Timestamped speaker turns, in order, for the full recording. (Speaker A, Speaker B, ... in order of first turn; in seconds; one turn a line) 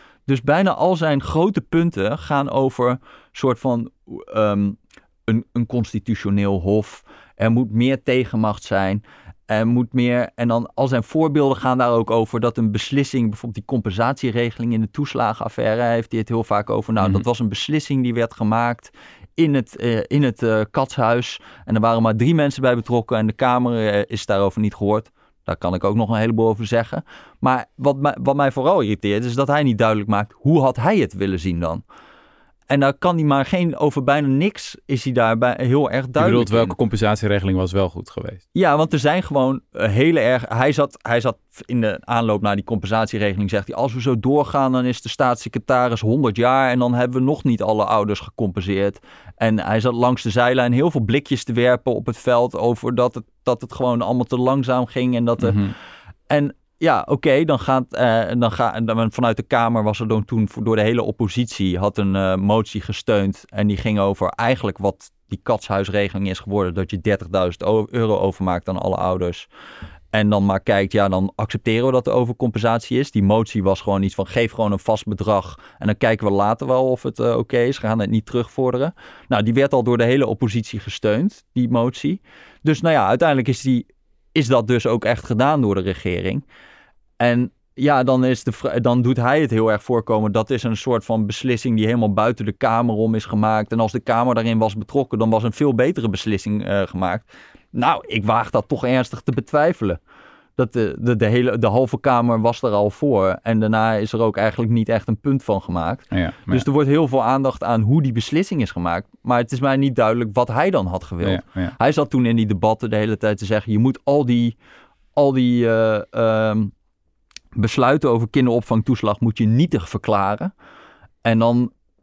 Speaker A: 0.3-31.8
Speaker A: 32.7-36.8
Speaker B: 36.2-38.4
Speaker A: 38.5-55.7
Speaker B: 55.4-55.7
Speaker A: 56.3-69.5
Speaker A: 70.1-86.4
Speaker A: 87.2-100.0
Speaker A: 100.6-114.5
Speaker B: 106.1-106.7
Speaker B: 111.2-111.7
Speaker A: 115.2-116.7
Speaker A: 117.5-120.5
Speaker A: 121.2-121.7